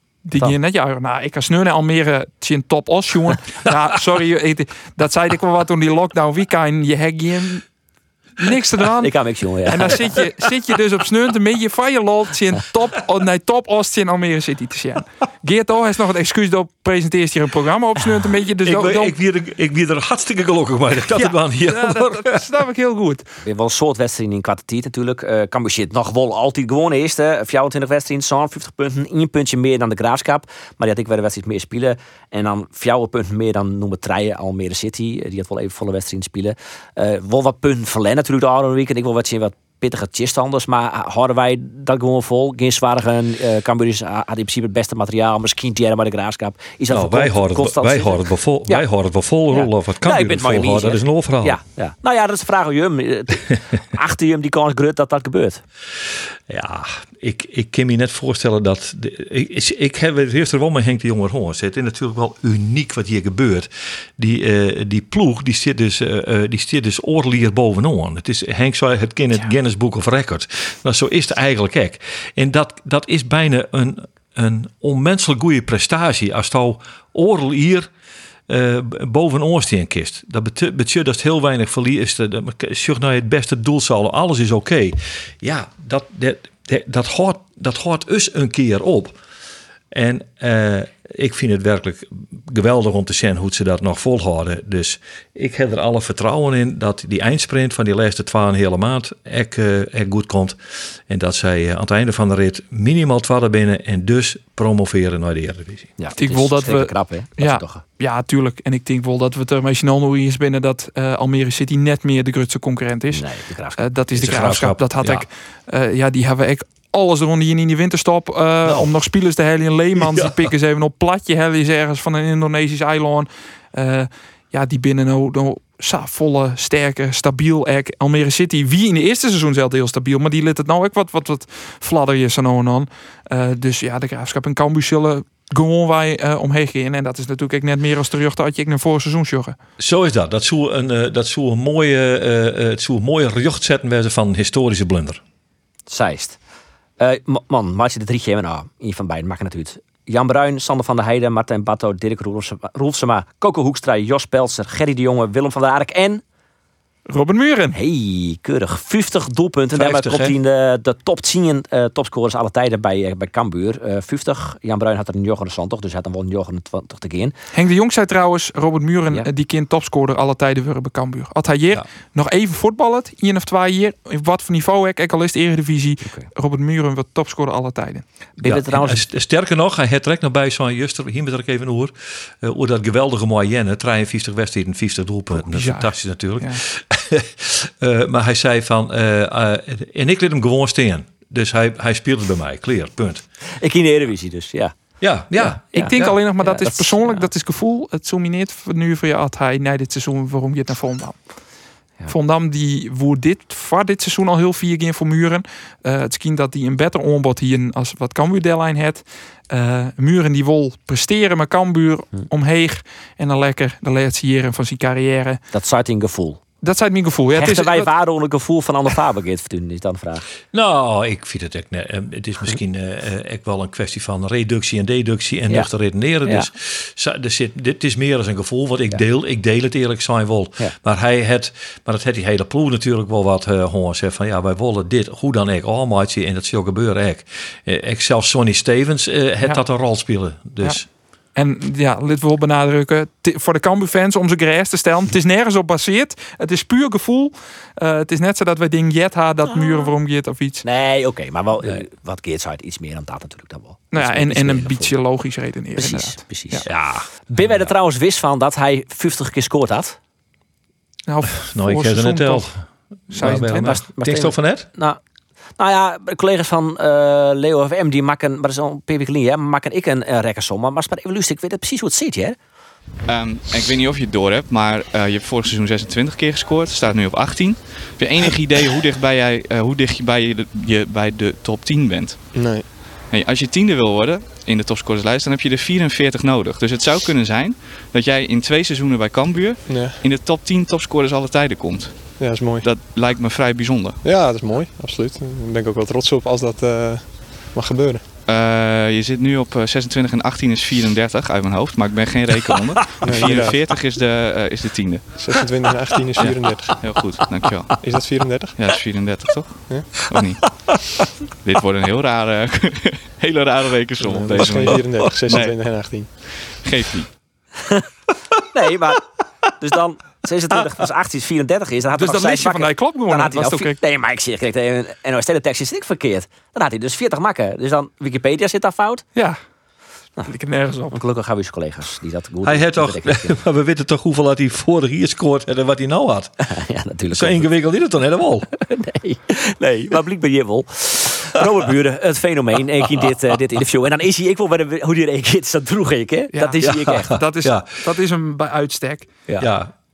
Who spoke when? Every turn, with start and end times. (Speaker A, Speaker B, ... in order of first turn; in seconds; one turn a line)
Speaker A: 0.2-7.6
Speaker A: 8.4-19.2
Speaker B: 9.0-10.0
Speaker C: 18.6-22.5
Speaker A: 21.1-23.3
Speaker B: 23.4-48.9
Speaker C: 46.9-51.6
Speaker B: 49.5-55.6
Speaker C: 56.5-77.9
Speaker C: 78.5-89.2
Speaker C: 89.9-105.9
Speaker B: 106.0-107.8
Speaker A: 106.2-113.2
Speaker B: 113.1-113.9
Speaker A: 113.8-139.6
Speaker C: 114.1-115.2
Speaker C: 120.0-120.4
Speaker C: 139.8-145.2
Speaker B: 145.9-146.4
Speaker B: 147.0-156.2
Speaker A: 157.1-157.8
Speaker B: 157.7-167.3
Speaker C: 159.7-160.3
Speaker A: 167.5-178.1
Speaker B: 176.0-176.3
Speaker B: 178.4-179.0
Speaker C: 178.4-193.2
Speaker A: 185.4-186.6
Speaker B: 193.6-194.7
Speaker C: 195.0-196.2
Speaker B: 195.4-197.3
Speaker A: 195.7-201.5
Speaker A: 202.1-215.4
Speaker B: 215.5-216.4
Speaker A: 216.6-217.9
Speaker B: 217.3-220.3
Speaker C: 220.5-240.9
Speaker A: 241.3-250.6
Speaker B: 250.6-255.0
Speaker A: 253.9-256.6
Speaker B: 255.7-259.9
Speaker C: 256.7-257.7
Speaker A: 261.1-262.5
Speaker C: 261.4-264.7
Speaker A: 263.1-263.9
Speaker B: 263.6-265.0
Speaker B: 265.6-272.4
Speaker D: 273.1-294.0
Speaker E: 282.3-282.7
Speaker E: 289.6-290.0
Speaker E: 292.2-292.6
Speaker E: 294.0-298.1
Speaker D: 298.2-305.4
Speaker E: 303.0-303.6
Speaker E: 305.1-306.9
Speaker D: 306.2-310.9
Speaker E: 307.8-308.6
Speaker E: 309.6-309.9
Speaker C: 309.9-310.6
Speaker D: 311.4-317.2
Speaker E: 314.0-316.2
Speaker C: 314.4-315.2
Speaker B: 318.5-319.1
Speaker B: 319.6-329.1
Speaker A: 321.9-323.8
Speaker A: 329.1-329.4
Speaker A: 330.3-331.0
Speaker B: 330.9-333.4
Speaker C: 332.4-336.5
Speaker B: 336.5-337.5
Speaker C: 337.1-338.5
Speaker B: 338.5-347.1
Speaker A: 346.3-349.2
Speaker C: 347.3-347.8
Speaker C: 349.4-349.8